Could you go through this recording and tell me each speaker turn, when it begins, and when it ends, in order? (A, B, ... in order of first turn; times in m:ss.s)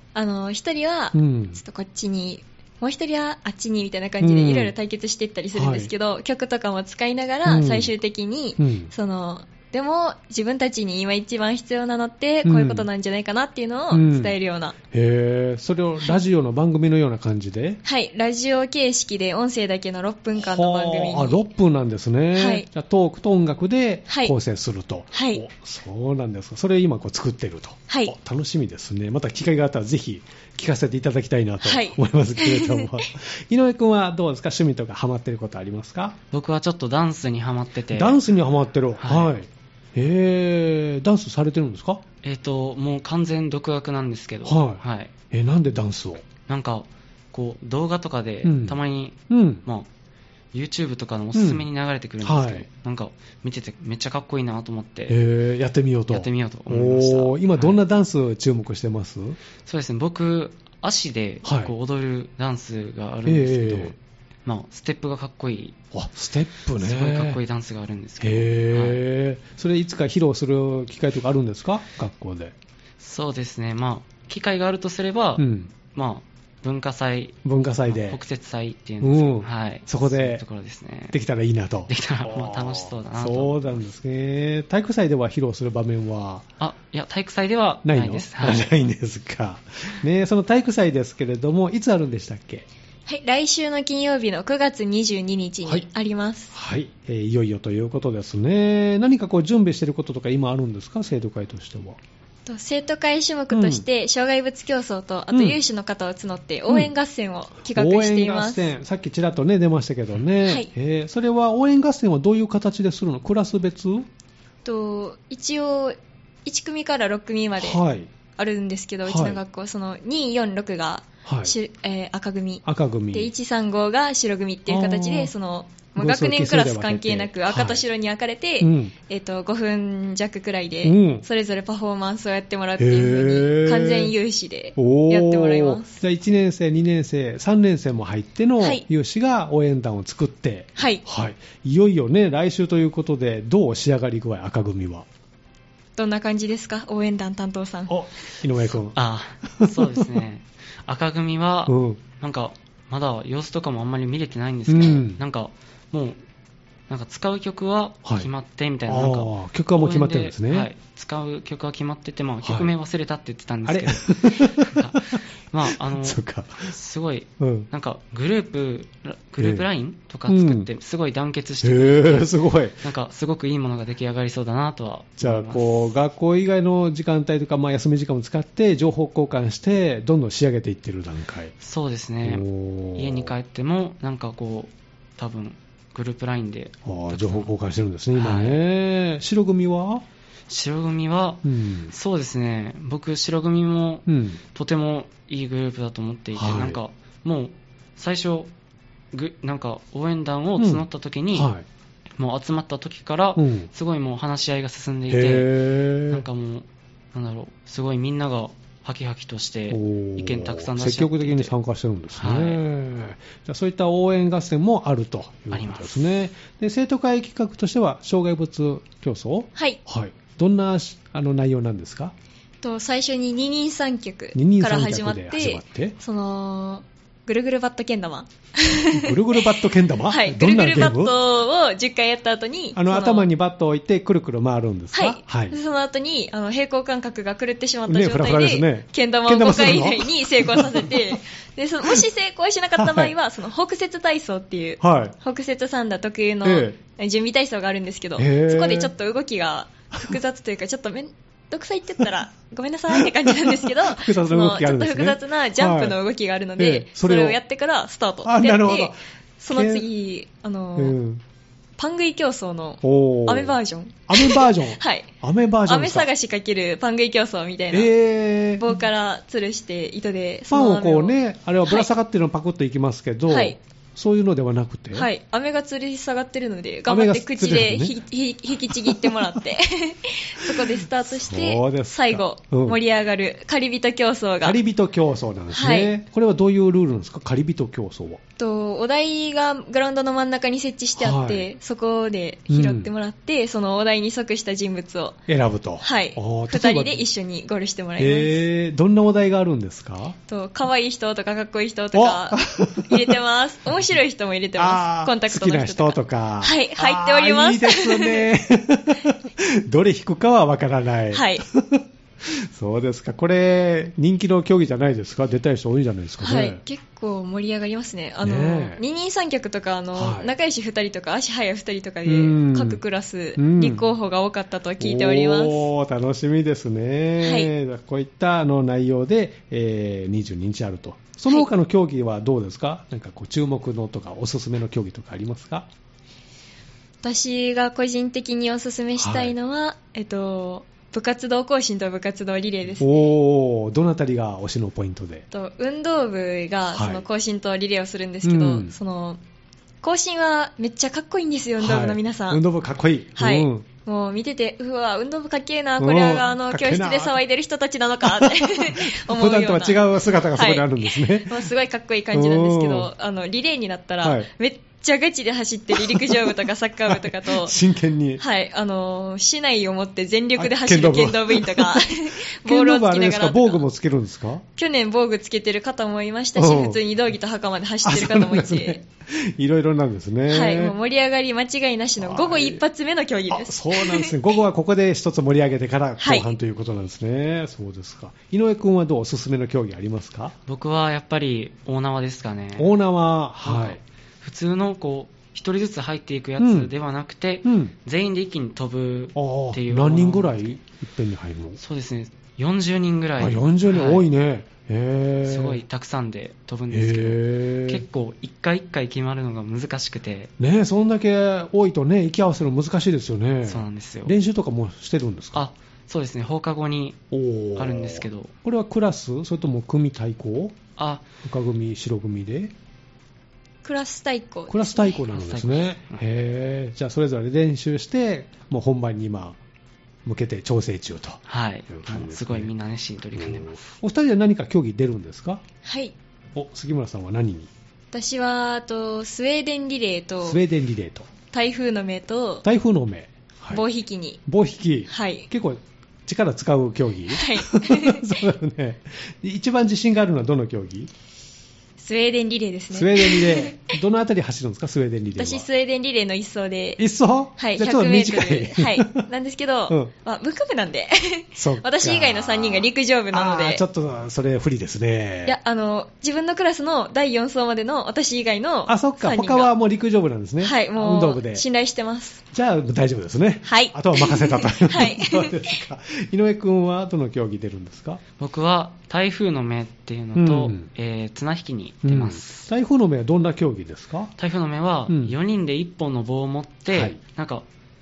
0:00.1-0:14.8 A
0:01.1-0:01.6 B
0:04.2-0:04.7 B
0:05.5-0:05.9 B
0:07.4-0:07.9 B
0:08.6-0:08.9 B
0:12.4-0:12.9 B
0:13.9-0:14.3 B
0:14.9-0:17.8 B
0:17.8-0:21.5 A
0:20.4-0:36.2 B
0:22.3-0:22.7 A
0:24.1-0:24.3 A
0:25.1-0:25.4 A
0:27.9-0:28.1 A
0:31.6-0:33.0 A
0:36.3-0:38.2 C
0:37.9-0:42.0 B
0:39.0-0:39.3 C
0:42.2-0:45.1 C
0:44.4-0:46.2 B
0:46.5-0:49.9 C
0:48.4-0:48.8 B
0:49.3-0:49.6 B
0:50.5-0:55.2 C
0:51.3-0:51.6 B
0:52.2-0:52.6 B
0:55.1-0:59.4 B
0:56.1-0:57.8 C
0:59.6-1:05.8 C
1:01.4-1:01.7 B
1:03.2-1:03.9 B
1:05.9-1:07.4 B
1:06.8-1:09.0 C
1:08.2-1:12.5 B
1:13.0-1:21.2 C
1:15.4-1:15.7 B
1:17.4-1:18.2 B
1:19.0-1:20.4 B
1:21.1-1:26.4 B
1:21.9-1:23.8 C
1:26.6-1:28.7 C
1:27.8-1:32.6 B
1:33.1-1:36.5 A
1:36.5-1:42.0 B
1:42.4-1:48.7 A
1:43.5-1:43.8 B
1:45.3-1:45.6 B
1:47.6-1:54.1 B
1:50.4-1:50.7 A
1:54.6-1:57.8 A
1:57.6-1:58.1 B
1:58.4-2:16.0 A
1:59.0-1:59.4 B
2:01.2-2:01.5 B
2:02.6-2:03.3 B
2:04.7-2:05.3 B
2:06.0-2:07.8 B
2:08.6-2:08.9 B
2:10.8-2:11.2 B
2:12.8-2:14.1 B
2:14.8-2:25.0 B
2:18.6-2:18.8 A
2:20.8-2:21.0 A
2:26.0-2:27.9 A
2:27.9-2:29.0 B
2:28.9-2:36.2 C
2:29.5-2:30.0 B
2:31.7-2:32.0 B
2:34.7-2:35.2 B
2:36.9-2:55.9 C
2:38.9-2:40.7 B
2:42.4-2:42.7 B
2:43.6-2:46.8 B
2:47.4-2:47.7 B
2:49.4-2:49.6 B
2:50.3-2:50.7 B
2:51.6-2:52.8 B
2:55.2-3:01.5 B
3:01.6-3:07.5 C
3:02.2-3:03.3 B
3:06.8-3:10.0 B
3:08.1-3:08.6 C
3:10.5-3:18.5 C
3:11.4-3:11.9 B
3:14.1-3:14.4 B
3:16.3-3:16.8 B
3:19.1-3:21.5 C
3:20.6-3:21.6 B
3:22.2-3:25.5 C
3:23.4-3:23.7 B
3:25.1-3:26.2 B
3:26.1-3:31.5 C
3:29.7-3:42.1 B
3:32.2-3:32.6 C
3:35.5-3:36.1 C
3:39.5-3:39.8 A
3:42.6-3:53.3 A
3:44.3-3:46.0 B
3:48.9-3:51.1 B
3:52.7-3:55.6 B
3:54.9-4:21.0 A
3:57.9-4:01.2 B
4:02.8-4:03.1 B
4:04.8-4:05.1 B
4:06.4-4:06.8 B
4:08.2-4:08.9 B
4:12.9-4:16.0 B
4:16.6-4:17.4 B
4:18.2-4:19.8 B
4:20.8-4:21.2 B
4:21.8-4:25.1 A
4:22.8-4:23.6 B
4:24.1-4:26.1 B
4:25.6-4:27.9 A
4:27.7-4:28.7 B
4:28.6-4:31.9 A
4:30.5-4:35.1 B
4:33.3-4:33.6 A
4:34.9-4:44.6 A
4:36.9-4:37.9 B
4:38.8-4:39.3 B
4:40.4-4:42.8 B
4:44.4-4:48.2 B
4:45.5-4:45.9 A
4:48.4-4:55.2 A
4:51.0-4:51.5 B
4:52.5-4:52.9 B
4:55.3-4:57.0 B
4:55.8-4:58.4 A
4:58.0-5:00.2 B
5:00.3-5:08.3 A
5:01.9-5:03.2 B
5:04.6-5:16.6 B
5:11.1-5:11.4 A
5:16.2-5:25.7 A
5:18.2-5:18.8 B
5:19.9-5:20.3 B
5:22.0-5:22.8 B
5:23.4-5:23.8 B
5:24.8-5:35.7 B
5:27.2-5:27.5 A
5:37.0-5:42.9 A
5:39.0-5:39.3 B
5:42.8-5:45.3 B
5:45.3-5:49.2 A
5:46.7-5:47.0 B
5:48.2-5:48.8 B
5:49.8-5:52.4 A
5:51.6-5:53.6 B
5:53.2-6:07.6 A
5:55.8-5:57.2 B
5:58.0-6:01.4 B
6:02.1-6:02.9 B
6:04.0-6:04.3 B
6:05.8-6:08.2 B
6:08.2-6:13.7 A
6:10.4-6:11.9 B
6:12.4-6:14.4 B
6:14.6-6:18.8 A
6:16.4-6:16.8 B
6:17.8-6:20.7 B
6:20.3-6:24.2 A
6:22.0-6:22.6 B
6:23.3-6:30.3 B
6:26.0-6:26.3 A
6:30.4-6:32.7 C
6:32.6-6:33.8 B
6:33.4-6:40.6 C
6:36.4-6:36.7 B
6:37.4-6:37.7 B
6:39.1-6:41.6 B
6:41.6-6:44.0 C
6:43.2-6:45.6 B
6:45.2-6:50.3 C
6:46.7-6:47.8 B
6:50.4-6:55.5 B
6:53.4-6:54.1 C
6:55.3-6:57.0 C
6:57.1-7:00.6 B
6:57.6-6:58.3 C
7:00.8-7:01.0 C
7:01.2-7:02.5 B
7:03.6-7:05.0 A
7:04.5-7:09.4 B
7:05.0-7:06.0 C
7:10.0-7:12.5 B
7:11.3-7:13.6 C
7:13.2-7:15.4 B
7:15.6-7:15.9 A
7:16.3-7:17.5 B
7:17.9-7:20.4 A
7:20.2-7:21.1 B
7:21.3-7:22.4 A
7:22.4-7:23.6 B
7:23.5-7:24.2 A
7:24.2-7:30.9 B
7:24.9-7:25.3 A
7:27.1-7:28.1 A
7:31.8-7:33.7 A
7:32.7-7:35.4 B
7:35.2-7:36.8 A
7:36.8-7:39.1 B
7:37.4-7:43.6 A
7:41.3-7:45.4 B
7:45.2-7:49.5 A
7:48.7-7:51.4 B
7:50.4-7:52.2 A
7:52.3-7:58.0 B
7:53.4-7:55.6 A
7:58.2-8:02.5 C
8:00.2-8:00.7 B
8:01.8-8:04.1 B
8:04.2-8:07.4 C
8:04.9-8:05.1 B
8:06.7-8:07.0 B